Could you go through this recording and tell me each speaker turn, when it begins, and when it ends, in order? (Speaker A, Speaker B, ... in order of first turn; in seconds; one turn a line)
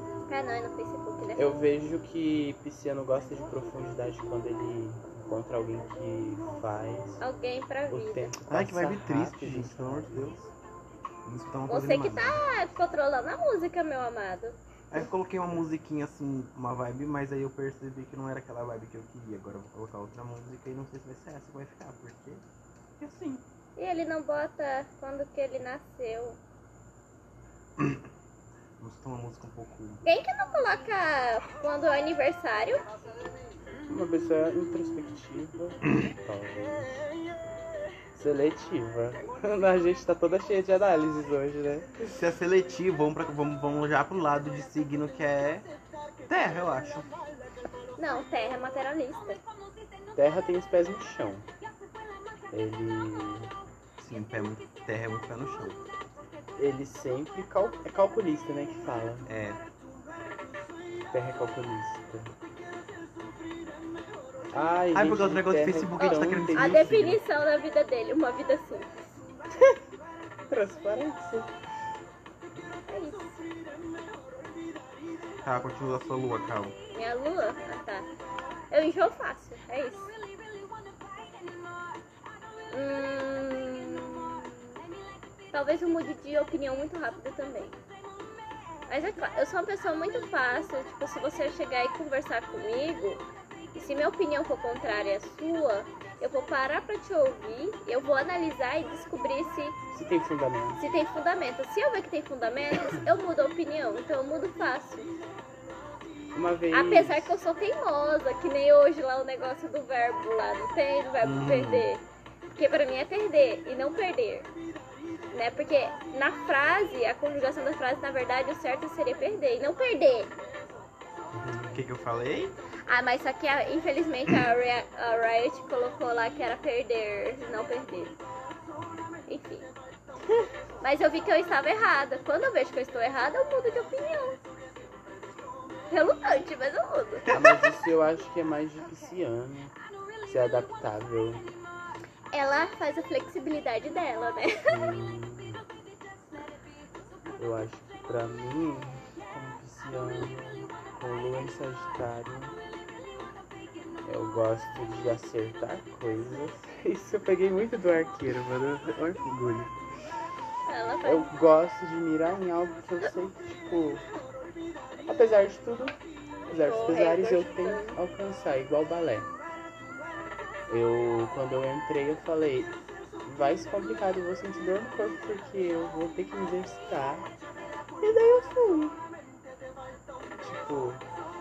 Speaker A: 0.3-1.6
Speaker B: 1.4-7.2
Speaker A: 7.2-8.3
Speaker B: 7.9-10.5
Speaker C: 8.5-10.4
Speaker C: 11.2-12.4
Speaker A: 11.7-14.6
Speaker C: 14.9-22.4
Speaker C: 23.0-23.4
Speaker A: 23.8-26.4
Speaker C: 28.8-30.0
Speaker A: 30.1-32.9
Speaker B: 33.9-37.1
Speaker B: 38.1-42.1
Speaker C: 42.1-45.7
Speaker C: 46.3-47.1
Speaker A: 48.0-49.4
Speaker B: 50.1-51.5
Speaker B: 52.5-53.5
Speaker C: 54.0-55.8
Speaker B: 56.6-59.3
Speaker C: 59.3-59.6
Speaker B: 61.1-62.4
Speaker B: 64.5-67.0
Speaker C: 64.9-67.2
Speaker A: 66.0-69.0
Speaker B: 69.5-69.8
Speaker B: 70.5-71.5
Speaker A: 72.9-73.3
Speaker C: 75.4-76.8
Speaker A: 76.9-78.1
Speaker A: 78.7-80.1
Speaker A: 82.7-84.6
Speaker A: 85.5-87.8
Speaker A: 88.9-99.8
Speaker B: 99.9-100.8
Speaker A: 100.8-105.1
Speaker B: 106.3-107.4
Speaker A: 106.7-112.0
Speaker C: 111.2-111.9
Speaker A: 112.6-114.5
Speaker A: 115.3-120.3
Speaker B: 121.3-121.8
Speaker C: 121.7-122.6
Speaker A: 122.9-128.2
Speaker A: 129.3-129.7
Speaker A: 130.8-134.4
Speaker A: 135.9-137.3
Speaker C: 137.3-137.7
Speaker B: 137.3-141.5
Speaker A: 142.3-144.8
Speaker B: 144.7-145.6
Speaker B: 147.4-152.6
Speaker B: 154.1-159.8
Speaker A: 160.7-161.3
Speaker B: 161.0-164.1
Speaker B: 165.1-166.0
Speaker B: 166.5-169.3
Speaker A: 166.6-168.0
Speaker B: 170.7-177.3
Speaker B: 178.0-179.0
Speaker B: 180.4-181.0